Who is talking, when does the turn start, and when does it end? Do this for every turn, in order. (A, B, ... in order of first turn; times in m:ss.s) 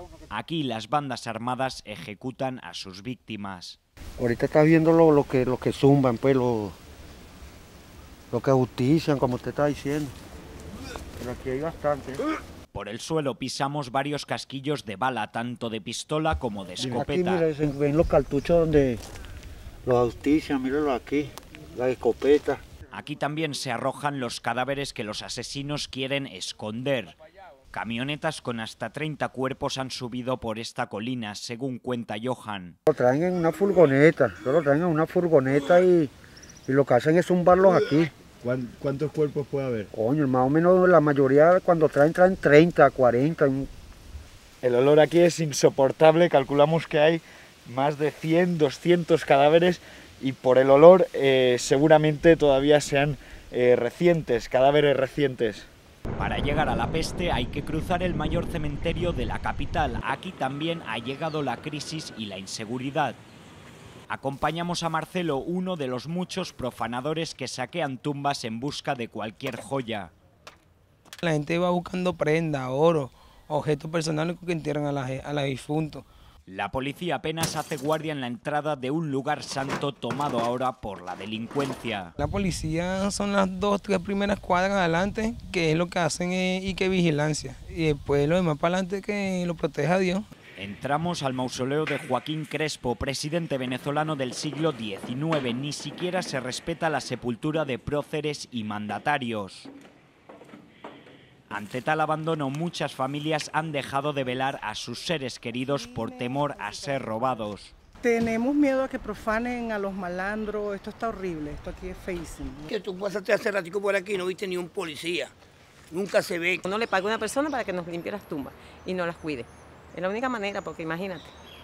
0:00.3-0:03.8 A
0:04.2-0:06.8 B
0:08.3-0:10.1 B
0:11.2-0:12.2 B
0:12.7-0:17.4 A
0:16.8-0:19.0 B
0:19.8-0:22.6 B
0:22.9-0:27.1 A
0:27.7-0:32.8 A
0:32.9-0:36.1 B
0:36.7-0:38.1 B
0:38.4-0:39.9 C
0:39.9-0:43.7 B
0:44.6-0:55.7 C
0:56.2-1:03.2 A
1:04.1-1:10.1 A
1:11.2-1:16.1 D
1:16.5-1:22.1 A
1:22.2-1:30.2 D
1:30.6-1:39.7 A
1:41.5-1:47.7 A
1:45.7-1:47.1 E
1:48.0-1:52.7 E
1:52.7-1:55.3 F
1:55.9-1:56.6 F
1:56.6-2:01.3 G